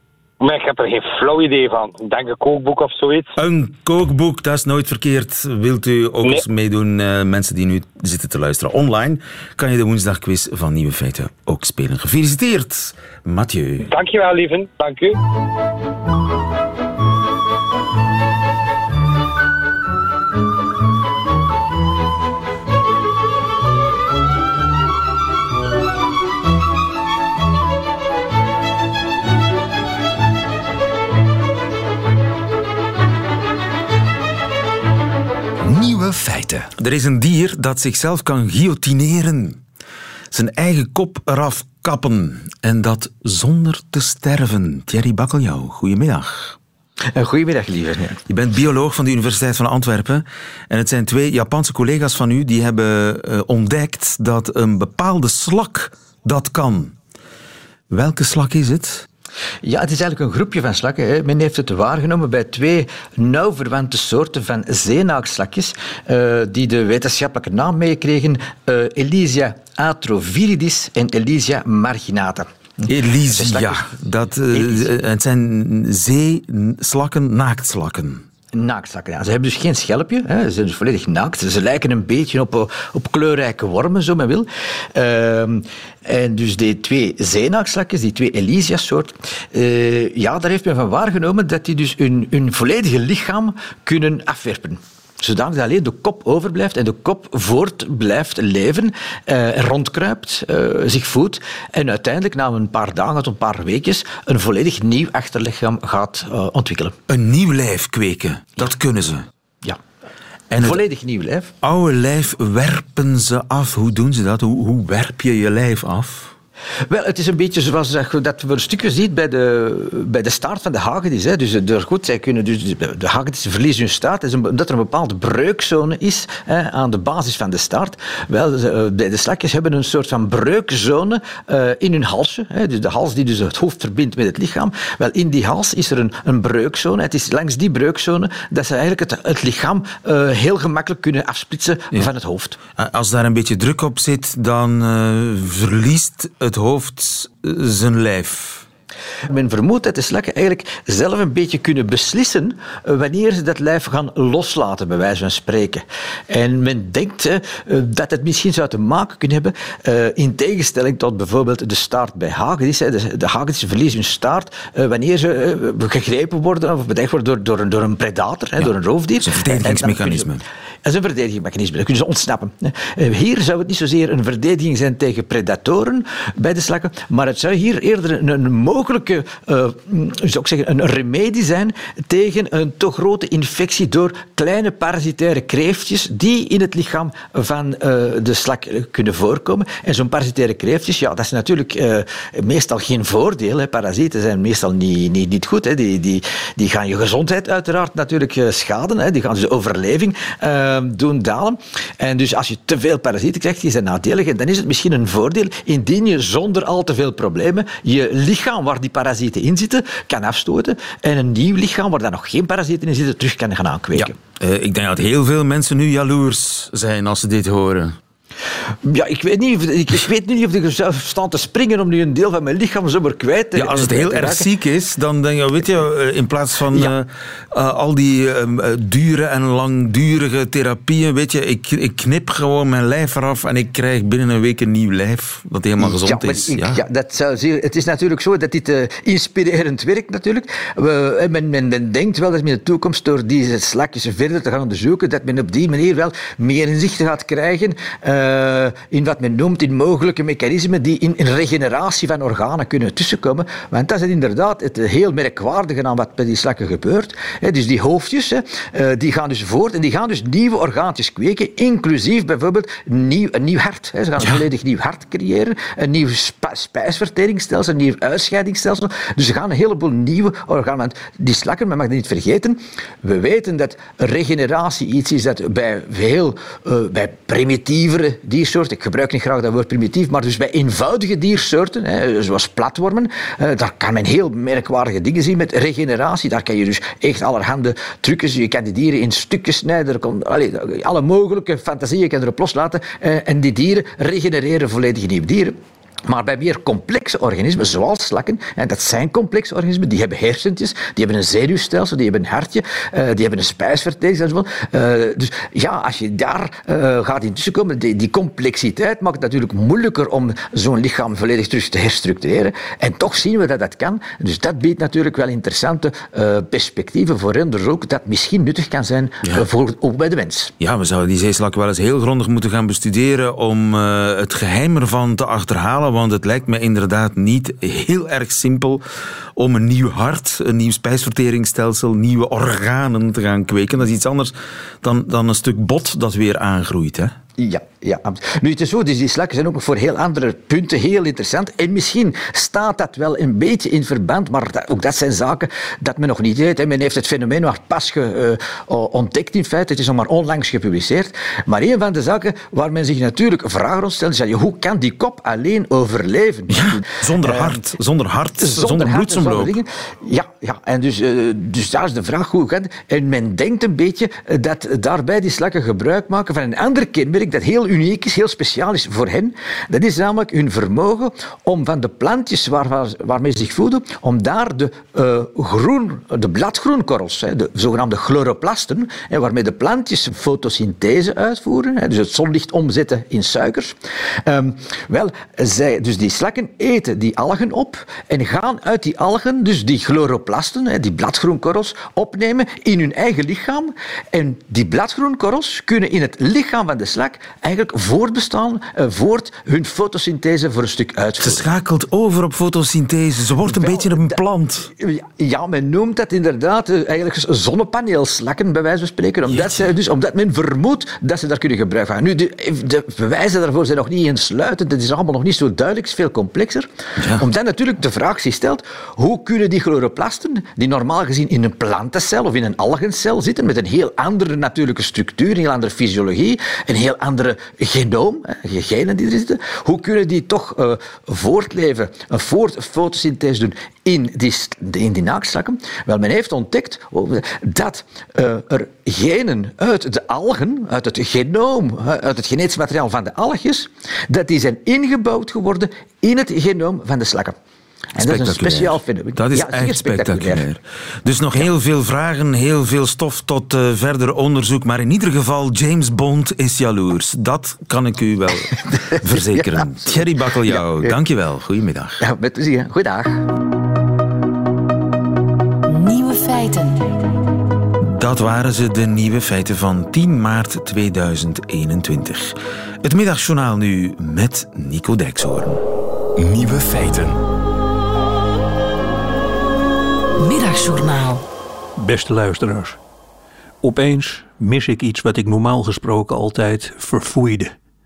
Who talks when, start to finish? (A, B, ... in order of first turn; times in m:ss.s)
0:00.4-0:03.3 A
0:03.4-0:13.9 B
0:13.8-0:15.2 A
0:35.6-0:36.7 C
0:36.8-0:39.6 B
0:40.3-0:46.6 B
0:47.1-0:48.2 D
0:48.3-0:56.9 B
0:57.9-0:59.1 B
0:59.6-1:12.5 D
1:12.8-1:18.2 B
1:13.3-1:13.9 D
1:14.5-1:14.9 D
1:18.5-1:46.9 D
1:47.1-1:49.3 B
1:50.5-1:50.8 B
1:50.6-1:51.5 D
1:51.6-1:56.3 B
1:56.9-2:22.6 D
2:22.8-2:28.6 B
2:29.3-2:50.3 D
2:48.6-2:50.4 B
2:50.8-3:34.1 D
3:33.9-3:38.0 B
3:38.8-3:44.4 D
3:43.5-3:56.8 B
3:55.8-4:55.6 D
4:56.1-5:20.5 D
5:20.6-5:28.8 B
5:29.4-5:37.1 B
5:37.4-5:57.6 D
5:56.5-5:59.6 B
5:58.4-6:41.5 D
6:41.2-6:44.7 B
6:43.5-6:44.2 D
6:44.7-7:27.3 D
6:49.3-6:49.7 B
6:57.0-6:57.3 B
7:27.9-7:30.4 D
7:28.0-7:42.0 B
7:38.6-7:40.9 D
7:42.0-7:43.3 D
7:45.6-7:46.9 E
7:47.8-7:55.6 B
7:56.2-7:57.2 C
8:00.2-8:01.2 E
8:01.8-8:02.8 F
8:03.6-8:07.5 F